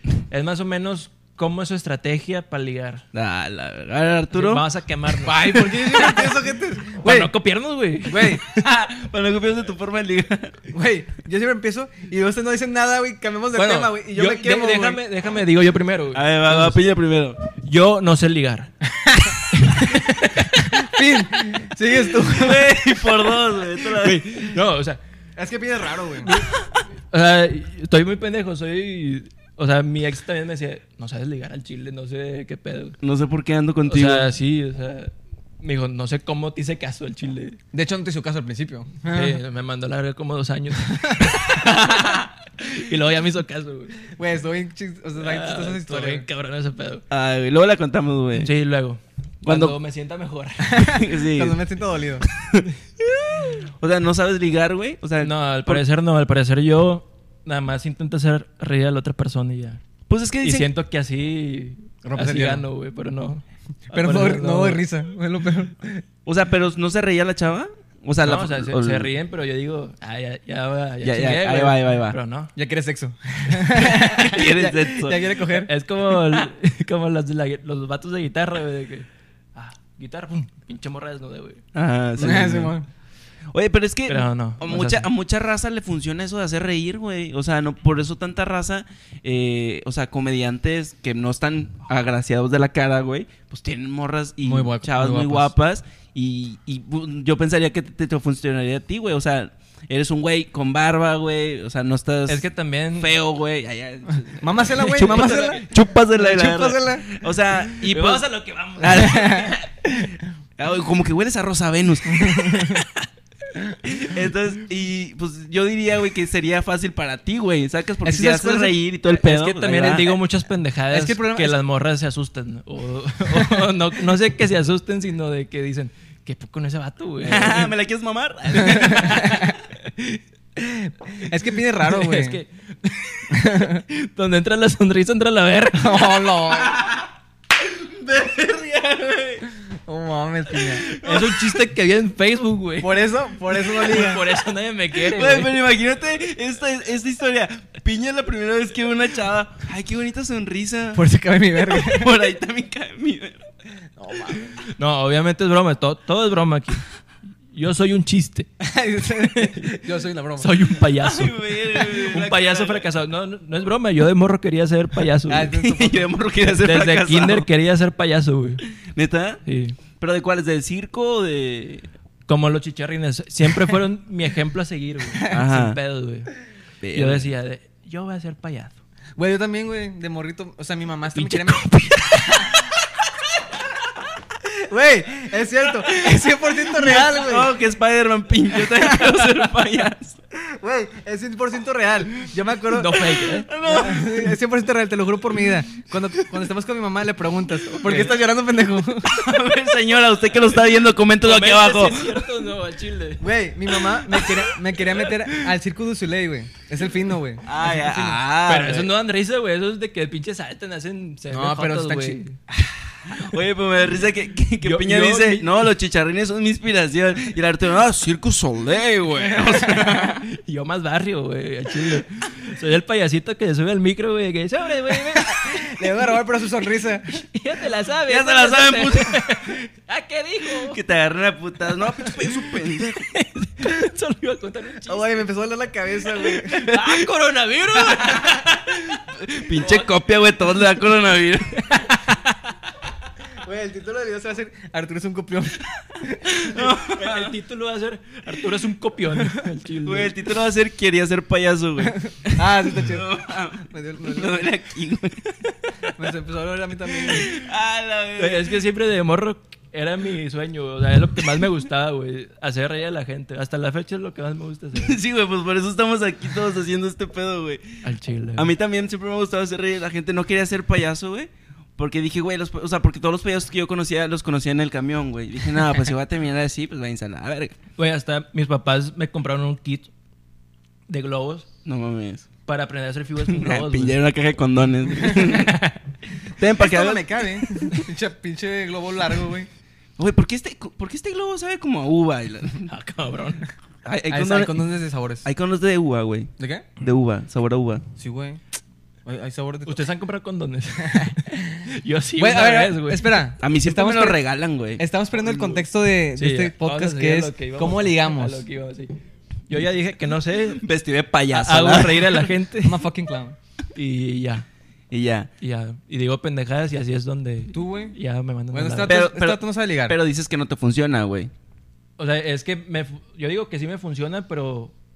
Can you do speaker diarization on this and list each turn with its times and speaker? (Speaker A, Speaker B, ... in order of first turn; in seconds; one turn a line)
Speaker A: 0.3-3.0
Speaker B: 3.1-4.6
Speaker A: 4.3-6.4
Speaker C: 5.2-7.3
Speaker A: 7.0-8.6
Speaker C: 8.1-8.4
Speaker B: 8.5-10.6
Speaker C: 10.7-15.0
Speaker A: 13.6-16.8
Speaker B: 16.1-17.4
Speaker A: 17.5-18.8
Speaker C: 19.0-19.4
Speaker A: 19.5-20.9
Speaker C: 20.7-23.1
Speaker B: 22.1-24.4
Speaker A: 24.0-25.0
Speaker C: 25.4-26.3
Speaker A: 26.2-26.5
Speaker A: 27.1-33.0
Speaker B: 33.0-34.3
Speaker A: 33.9-37.6
Speaker C: 37.7-39.4
Speaker A: 39.1-44.1
Speaker C: 40.9-41.4
Speaker C: 44.1-46.3
Speaker A: 45.2-47.0
Speaker B: 47.1-48.5
Speaker A: 48.4-50.9
Speaker B: 49.4-49.8
Speaker C: 50.6-52.3
Speaker B: 50.9-51.6
Speaker B: 52.4-52.7
Speaker B: 53.2-55.8
Speaker A: 55.2-59.8
Speaker B: 60.1-60.7
Speaker A: 60.4-64.8
Speaker C: 62.0-62.6
Speaker C: 63.9-66.0
Speaker B: 66.3-69.1
Speaker A: 68.2-72.5
Speaker B: 71.0-72.2
Speaker C: 72.5-75.7
Speaker B: 73.8-75.3
Speaker A: 75.6-81.6
Speaker B: 81.7-82.8
Speaker C: 82.2-82.9
Speaker B: 83.5-102.5
Speaker A: 84.1-85.1
Speaker C: 94.4-95.5
Speaker A: 102.3-103.1
Speaker B: 103.0-109.6
Speaker C: 104.4-107.1
Speaker A: 105.1-105.6
Speaker A: 107.8-109.6
Speaker C: 108.9-110.0
Speaker B: 110.6-112.8
Speaker C: 112.1-112.8
Speaker B: 113.9-120.2
Speaker C: 118.0-118.8
Speaker A: 119.1-127.7
Speaker C: 120.9-121.6
Speaker C: 123.4-123.6
Speaker B: 127.2-129.5
Speaker C: 128.6-129.6
Speaker A: 128.7-130.2
Speaker C: 130.6-132.4
Speaker A: 131.8-136.2
Speaker C: 133.3-133.8
Speaker C: 135.8-136.8
Speaker B: 136.5-139.5
Speaker C: 139.7-140.9
Speaker B: 140.5-141.6
Speaker A: 141.0-143.0
Speaker C: 142.8-144.2
Speaker A: 143.5-145.5
Speaker B: 145.0-151.1
Speaker C: 150.9-152.1
Speaker B: 151.6-153.4
Speaker C: 154.0-154.6
Speaker A: 154.8-156.8
Speaker A: 157.5-158.5
Speaker C: 158.6-160.5
Speaker A: 159.2-159.7
Speaker A: 160.4-165.6
Speaker B: 161.0-162.9
Speaker C: 165.3-166.1
Speaker B: 165.3-167.5
Speaker A: 166.6-168.6
Speaker B: 168.8-169.4
Speaker A: 169.5-169.8
Speaker B: 170.0-171.9
Speaker A: 172.3-176.3
Speaker B: 175.3-175.8
Speaker B: 176.8-177.3
Speaker A: 176.9-178.8
Speaker C: 179.2-182.6
Speaker A: 181.2-182.6
Speaker C: 184.4-187.5
Speaker B: 186.6-190.2
Speaker C: 188.5-189.4
Speaker C: 190.4-199.1
Speaker A: 192.7-193.5
Speaker B: 193.4-194.4
Speaker B: 199.1-202.2
Speaker A: 201.2-203.3
Speaker C: 203.2-208.2
Speaker B: 204.1-204.4
Speaker B: 207.4-208.9
Speaker A: 208.4-212.4
Speaker C: 211.3-213.2
Speaker B: 213.1-220.3
Speaker A: 214.6-215.7
Speaker C: 219.3-219.9
Speaker A: 220.2-225.8
Speaker C: 225.2-227.2
Speaker A: 227.1-230.8
Speaker B: 228.1-229.3
Speaker B: 230.6-233.1
Speaker A: 231.8-235.2
Speaker C: 234.9-236.7
Speaker A: 236.2-239.9
Speaker B: 236.5-237.1
Speaker B: 237.8-238.4
Speaker B: 239.1-241.7
Speaker A: 241.6-242.5
Speaker C: 243.4-246.7
Speaker B: 246.3-247.3
Speaker A: 246.8-250.1
Speaker B: 249.8-255.4
Speaker C: 252.3-254.5
Speaker C: 256.0-257.4
Speaker B: 257.0-258.6
Speaker A: 258.2-265.0
Speaker B: 264.8-267.8
Speaker A: 267.8-268.5
Speaker B: 268.4-277.6
Speaker A: 277.8-279.9
Speaker A: 280.9-281.5
Speaker B: 281.7-282.3
Speaker A: 282.5-284.0
Speaker B: 283.3-285.6
Speaker A: 285.1-285.8
Speaker B: 286.4-287.7
Speaker C: 286.4-289.5
Speaker B: 290.0-292.7
Speaker A: 292.7-293.5
Speaker B: 293.9-294.7
Speaker C: 294.1-295.3
Speaker B: 295.2-297.8
Speaker C: 296.4-296.7
Speaker C: 298.0-298.4
Speaker C: 299.1-299.8
Speaker A: 299.7-303.2
Speaker C: 300.8-301.3
Speaker C: 302.2-304.2
Speaker B: 303.4-305.5
Speaker C: 304.8-308.5
Speaker A: 306.2-309.0
Speaker A: 309.5-310.6
Speaker B: 310.6-312.3
Speaker A: 311.3-312.8
Speaker C: 312.6-313.4
Speaker A: 313.8-314.5
Speaker B: 314.9-315.3
Speaker A: 315.4-319.0
Speaker C: 317.5-318.0
Speaker C: 318.5-320.0
Speaker B: 318.9-321.3
Speaker A: 322.0-324.7